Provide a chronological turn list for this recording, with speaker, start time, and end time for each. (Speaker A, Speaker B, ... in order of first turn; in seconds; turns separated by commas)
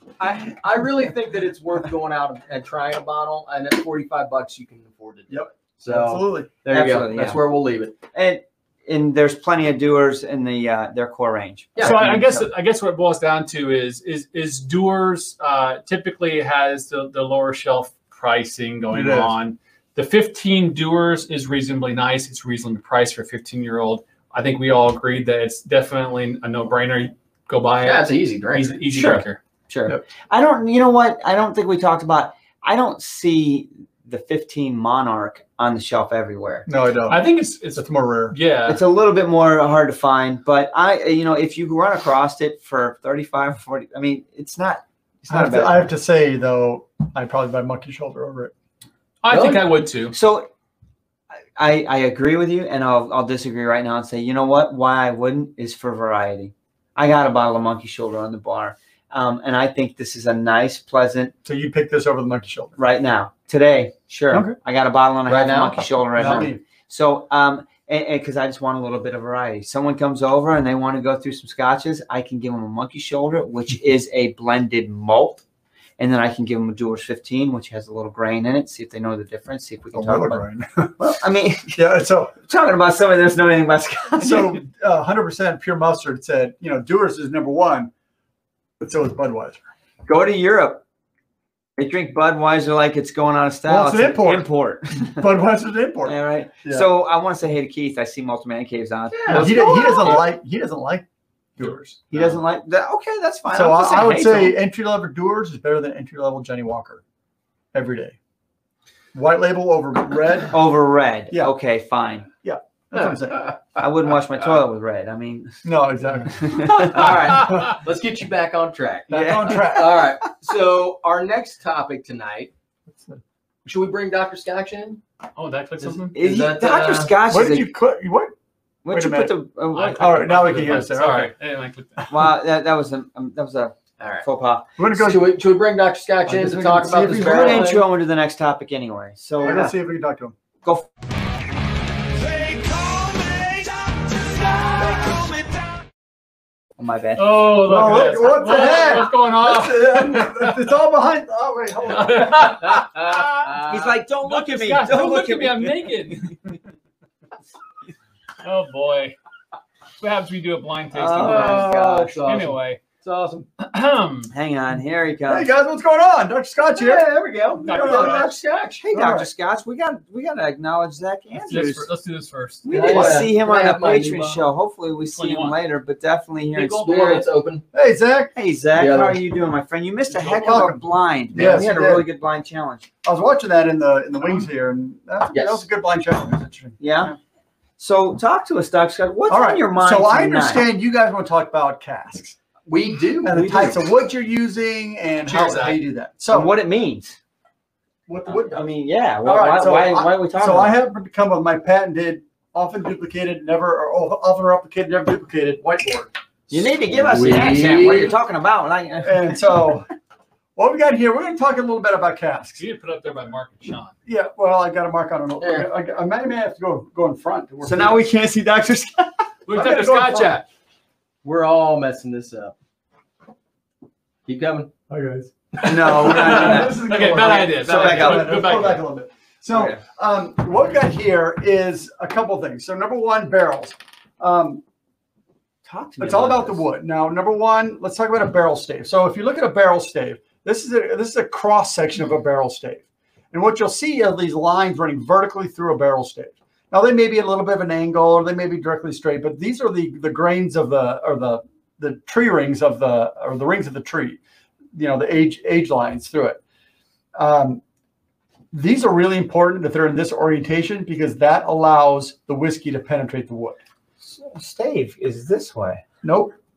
Speaker A: 0.2-8.0, Speaker B: 5.3-6.5, Speaker C: 6.7-7.4, Speaker C: 8.1-12.5, Speaker D: 11.8-29.4, Speaker B: 18.9-19.3, Speaker A: 27.8-28.8, Speaker C: 28.9-36.7, Speaker B: 36.7-37.2, Speaker D: 37.1-38.8, Speaker B: 37.8-38.4, Speaker C: 38.7-45.8, Speaker B: 45.3-48.5, Speaker D: 49.2-50.1, Speaker A: 49.3-49.6, Speaker C: 50.1-50.5, Speaker C: 51.5-61.3, Speaker B: 61.4-62.8, Speaker C: 62.8-75.4, Speaker B: 64.3-64.6, Speaker A: 65.3-66.3, Speaker B: 66.1-66.6, Speaker C: 76.0-80.4, Speaker B: 79.9-82.3, Speaker C: 81.0-81.8, Speaker C: 82.5-84.6, Speaker B: 84.2-87.9, Speaker B: 88.8-89.6, Speaker C: 90.0-90.8, Speaker C: 91.8-95.3, Speaker B: 93.7-96.9, Speaker C: 96.0-100.2, Speaker A: 99.1-100.1, Speaker B: 99.3-101.0, Speaker B: 101.6-102.3, Speaker C: 102.1-104.6, Speaker B: 103.5-107.0, Speaker B: 107.7-108.2, Speaker B: 109.1-110.6, Speaker C: 110.5-112.3, Speaker B: 112.4-113.5, Speaker C: 113.7-115.6, Speaker B: 115.6-116.7, Speaker C: 116.3-117.5, Speaker A: 116.8-122.5, Speaker B: 119.1-120.1, Speaker C: 119.1-119.7, Speaker A: 123.7-125.0, Speaker D: 125.3-126.2, Speaker A: 126.0-127.1, Speaker C: 126.1-127.7, Speaker B: 127.3-128.3, Speaker C: 128.8-130.5, Speaker B: 128.9-129.3, Speaker D: 129.7-132.1, Speaker B: 130.0-131.3, Speaker C: 132.1-134.7, Speaker A: 134.0-134.2, Speaker B: 134.8-135.3, Speaker A: 134.9-137.8, Speaker B: 136.3-137.7, Speaker C: 137.0-139.7, Speaker B: 139.4-140.3, Speaker C: 146.8-147.4, Speaker D: 147.2-150.6, Speaker B: 147.6-152.7, Speaker D: 151.9-153.4, Speaker A: 152.6-154.0, Speaker C: 153.5-155.9, Speaker D: 154.2-156.3, Speaker D: 158.4-159.2, Speaker D: 160.0-162.8, Speaker C: 160.9-162.1, Speaker A: 161.2-163.5, Speaker D: 163.6-164.3, Speaker C: 164.3-165.5, Speaker B: 165.3-167.1, Speaker A: 166.8-168.8, Speaker D: 167.6-168.3, Speaker C: 167.6-171.8, Speaker B: 167.7-168.2, Speaker B: 168.9-169.3, Speaker D: 171.3-173.1, Speaker B: 171.5-171.8, Speaker C: 172.6-177.2, Speaker A: 172.7-174.4, Speaker D: 175.1-175.6, Speaker A: 176.6-177.6, Speaker D: 176.6-177.2, Speaker B: 177.7-178.3, Speaker C: 178.3-182.9, Speaker A: 178.8-179.2, Speaker B: 180.2-182.1, Speaker B: 183.0-187.2, Speaker A: 185.3-185.6, Speaker C: 186.8-187.1, Speaker C: 187.8-190.7, Speaker B: 189.3-192.4, Speaker A: 192.7-193.7, Speaker B: 193.2-196.5, Speaker C: 193.3-193.7, Speaker D: 195.2-195.8, Speaker C: 196.3-197.2, Speaker B: 198.1-198.7, Speaker C: 198.3-200.7, Speaker B: 199.2-207.9, Speaker C: 206.5-209.4, Speaker A: 206.9-208.1, Speaker B: 209.0-209.9, Speaker B: 210.6-212.6, Speaker D: 212.6-213.9, Speaker B: 214.1-218.1, Speaker A: 215.4-215.7, Speaker C: 217.6-219.1, Speaker D: 219.5-220.4, Speaker B: 219.5-220.4, Speaker A: 221.2-222.5, Speaker A: 224.2-224.7, Speaker B: 224.9-234.6, Speaker C: 225.6-228.4, Speaker D: 225.6-228.8, Speaker C: 229.5-229.8, Speaker C: 235.7-236.6, Speaker B: 236.0-254.2, Speaker B: 254.7-256.4, Speaker B: 257.1-257.6, Speaker B: 258.5-263.6, Speaker C: 264.0-265.8, Speaker B: 266.0-266.3